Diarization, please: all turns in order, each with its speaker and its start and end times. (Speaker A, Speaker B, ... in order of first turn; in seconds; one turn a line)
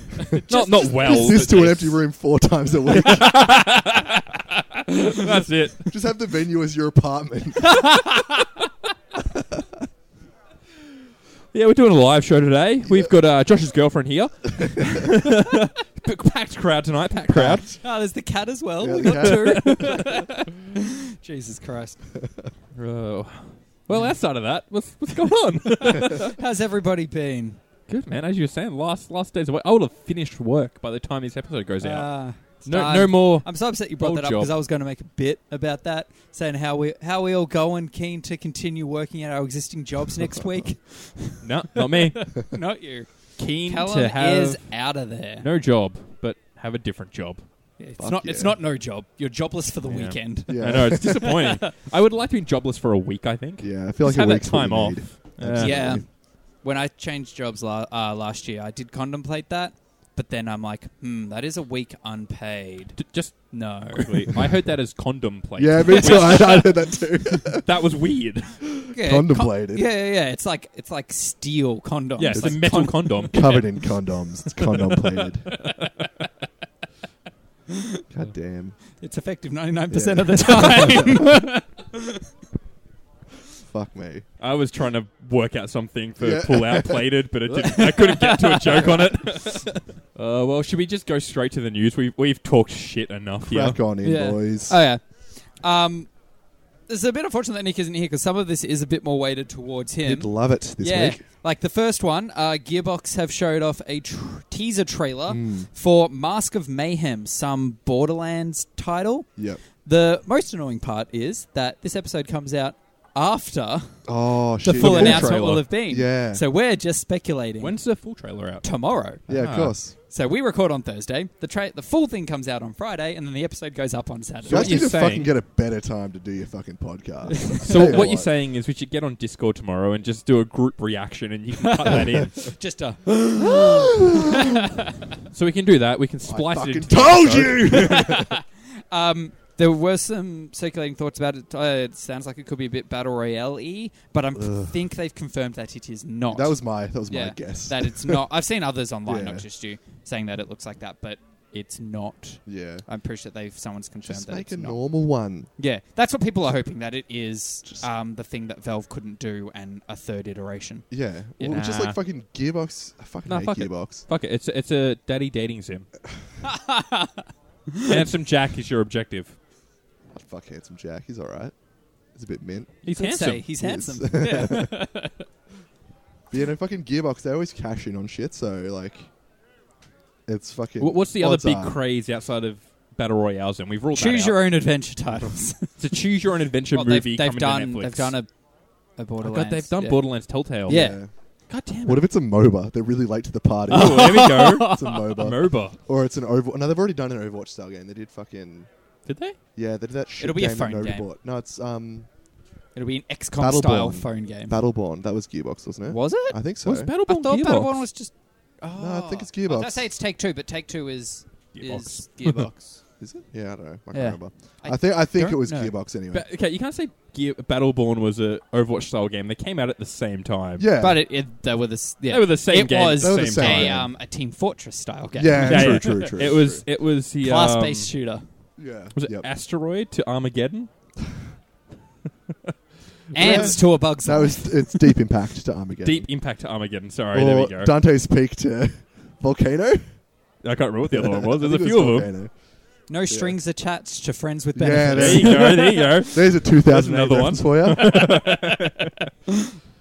Speaker A: 0.1-1.4
Speaker B: 0.5-2.0
Speaker C: 0.9-3.5
Speaker B: 2.9-5.9
Speaker C: 5.9-7.9
Speaker A: 7.6-8.5
Speaker C: 9.3-9.6
Speaker B: 11.5-17.8
Speaker C: 12.9-13.1
Speaker C: 14.6-15.0
Speaker C: 17.3-17.7
Speaker A: 17.8-22.0
Speaker C: 18.8-20.0
Speaker B: 19.0-20.5
Speaker C: 22.2-22.5
Speaker B: 22.7-26.4
Speaker A: 23.9-24.2
Speaker A: 25.7-27.6
Speaker B: 27.9-34.5
Speaker A: 31.8-45.5
Speaker B: 41.4-42.6
Speaker B: 43.4-47.5
Speaker A: 47.8-51.7
Speaker C: 48.0-48.6
Speaker B: 49.9-56.0
Speaker C: 50.5-51.3
Speaker C: 53.6-56.0
Speaker A: 55.5-63.0
Speaker B: 63.0-68.6
Speaker A: 63.5-64.4
Speaker C: 65.6-67.7
Speaker A: 65.9-66.6
Speaker C: 68.7-69.9
Speaker A: 68.9-73.6
Speaker B: 72.2-74.0
Speaker C: 72.3-75.6
Speaker B: 75.5-76.1
Speaker A: 77.7-78.0
Speaker C: 78.1-78.8
Speaker A: 79.0-82.2
Speaker C: 79.9-81.4
Speaker C: 83.7-84.3
Speaker B: 84.4-93.8
Speaker C: 86.2-87.8
Speaker A: 87.7-89.6
Speaker C: 93.5-94.8
Speaker A: 94.0-96.1
Speaker A: 96.9-117.8
Speaker C: 100.0-101.2
Speaker C: 105.3-105.7
Speaker C: 114.0-116.4
Speaker B: 114.7-115.7
Speaker B: 117.6-118.7
Speaker A: 118.6-124.8
Speaker B: 119.3-119.8
Speaker C: 119.3-120.0
Speaker B: 124.5-125.3
Speaker C: 124.5-128.3
Speaker A: 127.5-128.0
Speaker B: 127.6-132.6
Speaker A: 131.7-134.9
Speaker C: 133.4-134.2
Speaker B: 135.3-138.0
Speaker C: 136.2-138.3
Speaker A: 137.7-160.9
Speaker C: 144.3-144.8
Speaker C: 146.3-148.3
Speaker C: 149.1-149.5
Speaker C: 152.5-152.9
Speaker C: 154.1-155.5
Speaker C: 160.9-164.1
Speaker B: 161.5-162.0
Speaker B: 163.3-165.9
Speaker A: 166.4-168.0
Speaker B: 167.8-169.4
Speaker C: 170.1-171.6
Speaker C: 172.1-172.8
Speaker B: 172.8-173.5
Speaker A: 172.9-175.2
Speaker C: 173.6-174.9
Speaker C: 176.3-179.1
Speaker C: 180.3-181.8
Speaker B: 180.8-184.6
Speaker A: 183.9-185.8
Speaker B: 185.8-188.2
Speaker A: 186.7-188.3
Speaker A: 189.0-191.0
Speaker B: 189.2-192.1
Speaker C: 190.7-198.7
Speaker A: 193.7-195.0
Speaker B: 193.7-195.8
Speaker B: 199.1-199.4
Speaker C: 199.6-202.1
Speaker A: 200.2-201.1
Speaker A: 202.8-204.6
Speaker C: 203.4-206.9
Speaker A: 205.9-206.4
Speaker B: 206.7-207.8
Speaker A: 207.1-212.8
Speaker C: 208.8-209.9
Speaker B: 211.6-212.5
Speaker C: 213.0-216.3
Speaker A: 213.9-215.8
Speaker B: 216.1-220.7
Speaker C: 220.6-221.0
Speaker A: 220.8-226.2
Speaker B: 222.1-223.8
Speaker C: 223.0-223.9
Speaker C: 225.2-226.7
Speaker B: 225.4-227.9
Speaker A: 227.2-228.2
Speaker C: 228.6-229.3
Speaker B: 228.9-230.7
Speaker B: 233.1-233.6
Speaker A: 233.1-234.8
Speaker C: 233.2-236.1
Speaker B: 235.8-237.8
Speaker C: 237.1-240.0
Speaker B: 240.4-242.1
Speaker C: 240.9-242.5
Speaker A: 242.9-245.9
Speaker C: 243.1-243.4
Speaker C: 244.6-248.1
Speaker B: 244.9-249.0
Speaker A: 247.9-248.7